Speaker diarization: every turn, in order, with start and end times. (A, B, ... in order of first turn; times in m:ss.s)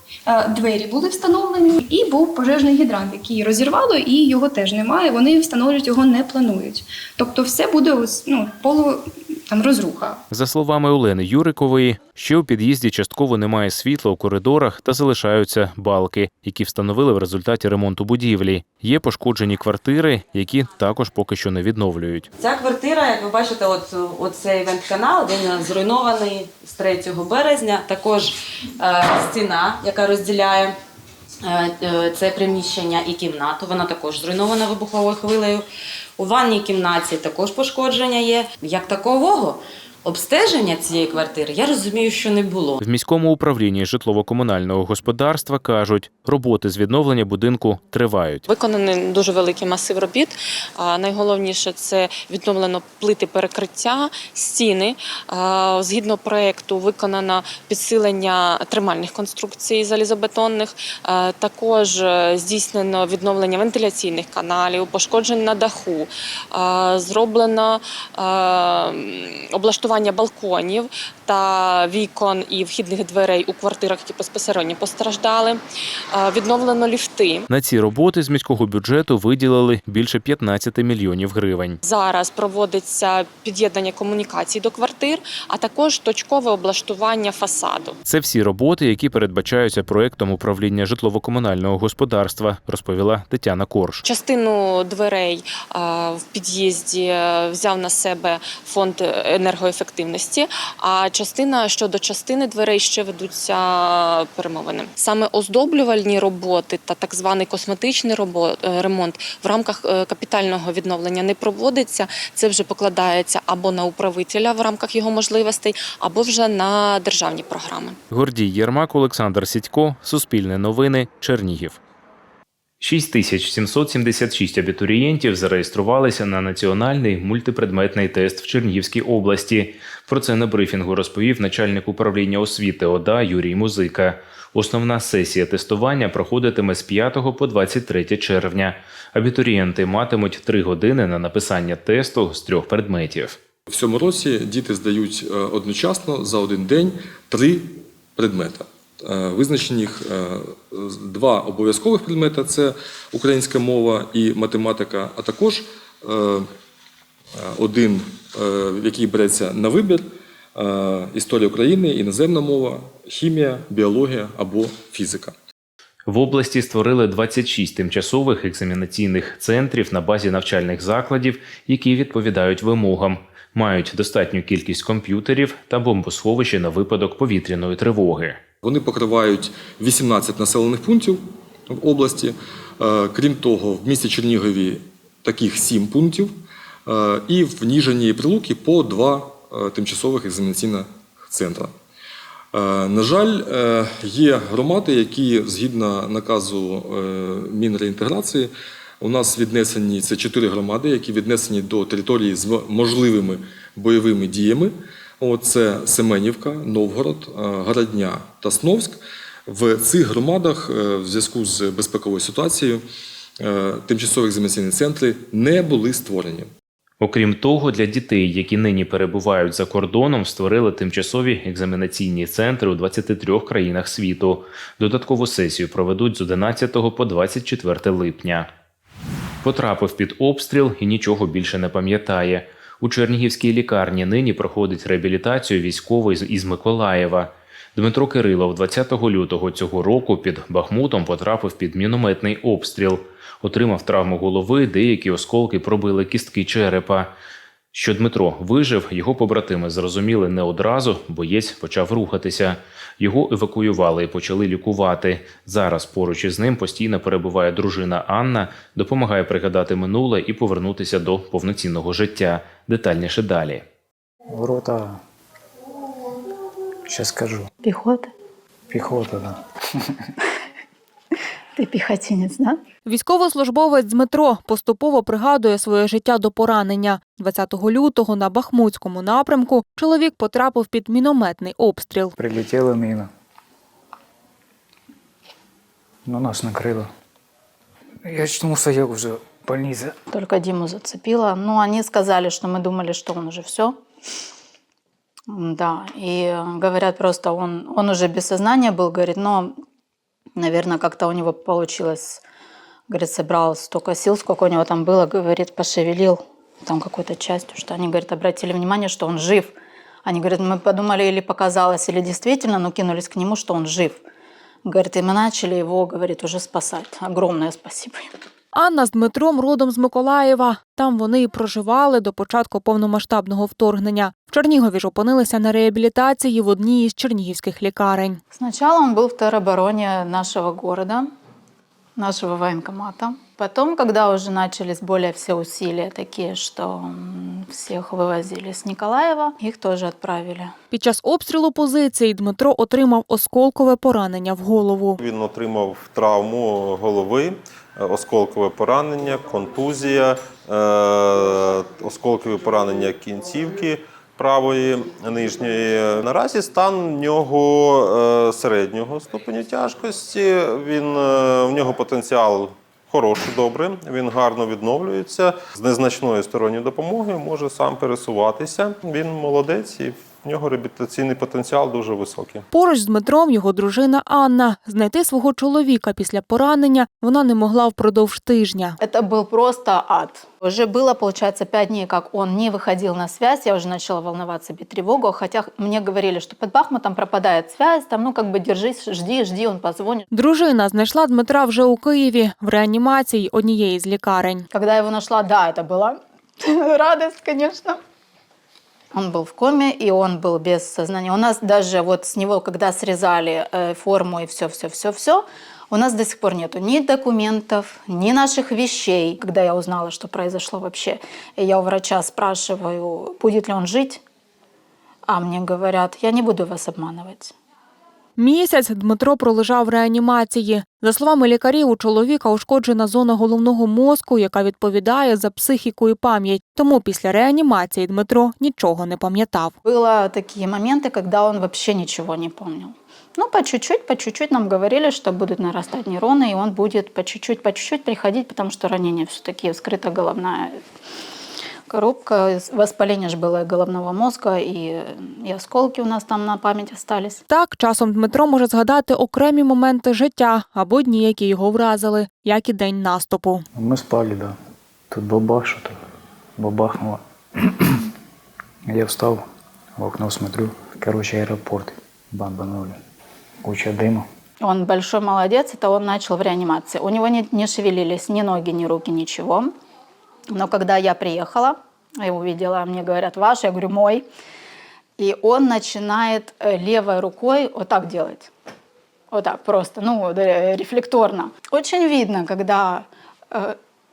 0:00.3-0:10.2 A
0:10.3-0:22.3 B
0:22.4-0:30.8 C
0:31.4-0:35.6 C
0:36.2-0:42.8 C
0:42.8-0:48.5 B
0:48.5-1:17.5 D
1:17.5-1:21.8 B
1:21.8-1:28.0 D
1:28.1-1:34.0 B
1:34.0-1:58.0 D
1:58.1-2:01.8 B
2:02.8-2:23.4 B
2:23.7-2:36.4 E
2:37.4-2:45.3 E
2:46.1-2:58.4 B
2:58.6-3:06.3 E
3:06.9-3:11.7 E
3:12.5-3:32.8 E
3:33.4-3:36.5 E
3:37.0-3:48.5 B
3:49.4-4:07.1 B
4:07.7-4:23.6 B
4:24.3-4:25.0 F
4:26.9-4:27.5 F
4:27.6-4:28.1 G
4:28.7-4:29.4 F
4:31.6-4:32.6 G
4:32.9-4:42.1 H
4:42.2-4:43.1 F
4:46.0-4:46.9 F
4:48.0-4:50.0 F
4:50.1-4:53.8 G
4:55.3-4:59.5 G
5:00.4-5:02.2 G
5:02.9-5:14.0 G
5:14.6-5:18.1 G
5:18.5-5:28.2 H
5:28.3-5:31.1 G
5:32.0-5:40.5 G
5:40.7-5:45.0 H
5:45.0-6:12.4 I
6:12.5-6:18.8 H
6:18.8-6:30.1 G
6:30.1-6:34.5 H
6:34.5-6:37.8 G
6:38.9-6:54.0 G
6:55.1-6:57.3 G
6:58.2-7:09.5 H
7:09.6-7:20.5 G
7:21.7-7:27.2 G
7:27.3-7:33.4 H
7:33.5-7:34.4 F
7:34.9-7:35.8 F
7:36.4-7:37.9 F
7:38.7-7:39.2 F
7:39.8-7:42.8 F
7:43.4-7:44.1 F
7:44.4-7:49.5 G
7:50.3-7:54.1 G
7:55.0-7:58.3 G
7:59.1-8:03.6 G